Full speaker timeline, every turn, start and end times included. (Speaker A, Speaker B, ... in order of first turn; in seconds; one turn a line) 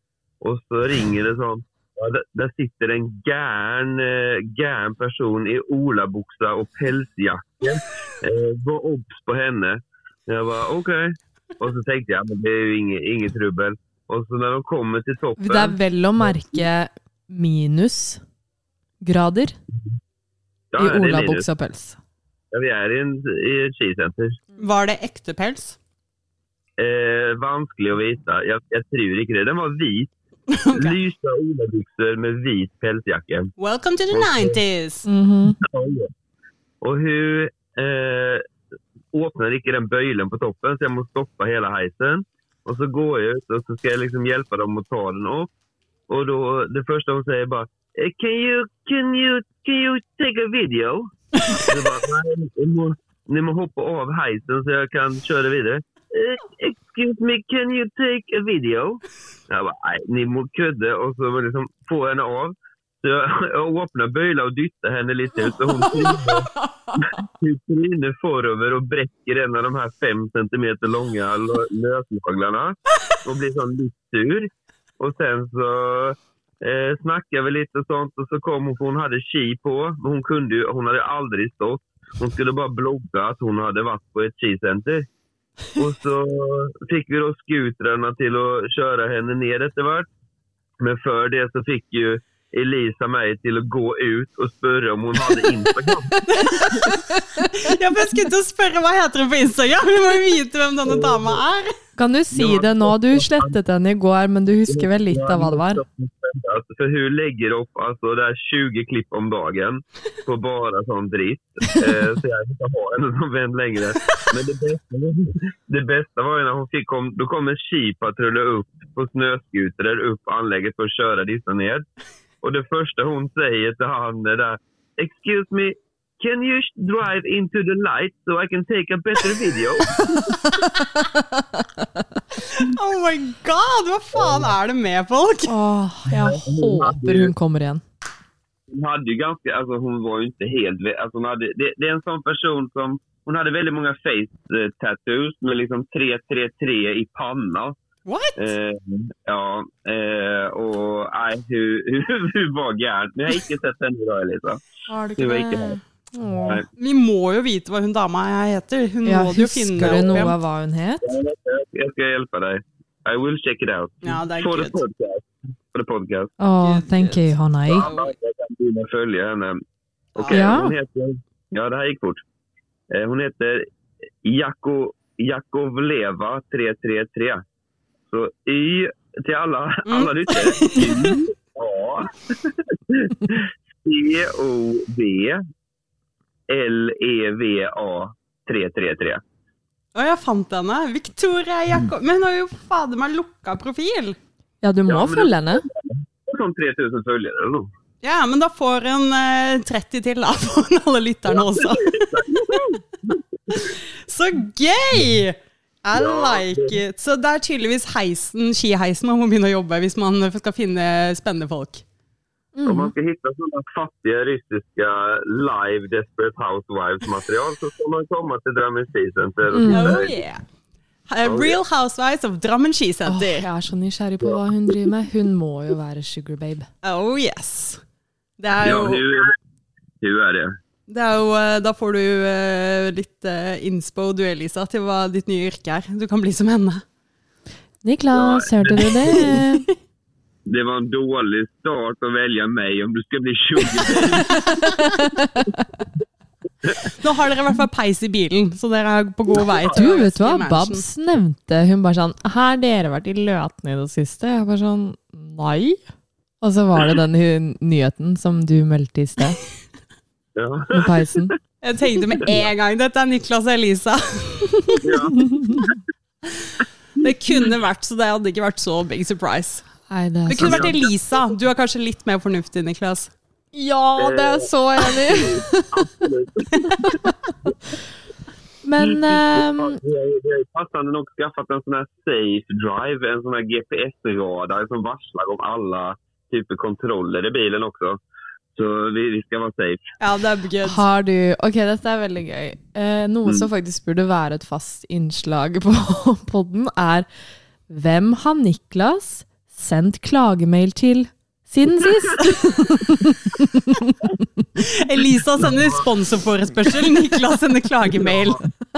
Speaker A: 0.4-15.8
Speaker B: 15.4-18.2
Speaker B: 19.0-19.6
Speaker A: 20.7-21.5
Speaker B: 20.8-22.0
Speaker A: 22.5-24.4
Speaker C: 24.6-25.8
Speaker A: 26.8-30.1
Speaker C: 30.5-31.0
Speaker A: 30.7-33.5
Speaker C: 33.6-35.1
Speaker A: 34.1-34.6
Speaker B: 35.1-35.6
Speaker A: 35.6-36.1
Speaker A: 36.8-38.5
Speaker A: 39.1-45.5
Speaker A: 46.1-85.1
Speaker A: 85.8-90.1
Speaker A: 90.8-96.9
Speaker C: 96.3-101.8
Speaker A: 100.9-101.4
Speaker B: 102.0-105.8
Speaker A: 102.3-103.5
Speaker A: 104.7-121.8
Speaker A: 122.4-130.4
Speaker B: 131.0-132.0
Speaker C: 132.4-135.6
Speaker A: 134.2-134.5
Speaker B: 135.5-137.8
Speaker A: 136.1-137.3
Speaker A: 138.7-147.8
Speaker C: 148.1-148.5
Speaker A: 148.4-154.6
Speaker B: 154.9-156.7
Speaker A: 155.2-155.8
Speaker A: 156.4-156.7
Speaker C: 156.8-160.3
Speaker B: 159.1-161.0
Speaker A: 161.0-166.3
Speaker C: 164.0-164.8
Speaker B: 166.4-167.9
Speaker C: 166.6-168.1
Speaker A: 167.7-169.6
Speaker A: 170.2-172.2
Speaker C: 170.2-170.5
Speaker B: 170.3-170.8
Speaker A: 172.9-173.7
Speaker A: 174.2-177.4
Speaker A: 178.1-185.4
Speaker C: 179.9-181.2
Speaker A: 186.5-189.2
Speaker C: 189.9-194.2
Speaker B: 194.6-195.6
Speaker A: 194.9-197.7
Speaker C: 198.0-202.2
Speaker A: 201.3-203.6
Speaker C: 203.5-211.8
Speaker A: 205.9-206.8
Speaker B: 212.6-212.9
Speaker A: 212.7-220.2
Speaker B: 219.5-220.0
Speaker C: 219.7-220.4
Speaker C: 221.1-223.5
Speaker A: 221.2-221.6
Speaker B: 223.1-226.7
Speaker C: 226.8-227.8
Speaker C: 228.4-229.3
Speaker A: 228.6-229.3
Speaker A: 230.0-230.6
Speaker C: 230.9-236.8
Speaker B: 237.8-239.7
Speaker A: 238.1-239.4
Speaker A: 240.5-244.5
Speaker C: 244.0-244.4
Speaker B: 244.4-245.6
Speaker C: 247.0-250.8
Speaker A: 249.5-249.8
Speaker B: 249.7-255.8
Speaker B: 256.4-259.4
Speaker A: 260.4-260.9
Speaker B: 260.7-261.3
Speaker C: 261.6-264.8
Speaker A: 264.8-265.8
Speaker B: 265.1-265.6
Speaker C: 266.4-269.7
Speaker B: 269.9-270.8
Speaker C: 270.3-273.1
Speaker A: 270.4-270.8
Speaker B: 273.5-275.9
Speaker A: 274.0-277.0
Speaker B: 276.6-277.4
Speaker B: 278.6-279.8
Speaker A: 279.0-288.0
Speaker A: 288.6-289.9
Speaker C: 290.0-290.8
Speaker B: 290.6-297.1
Speaker B: 297.7-304.4
Speaker C: 304.6-308.4
Speaker A: 305.5-305.8
Speaker A: 308.0-308.4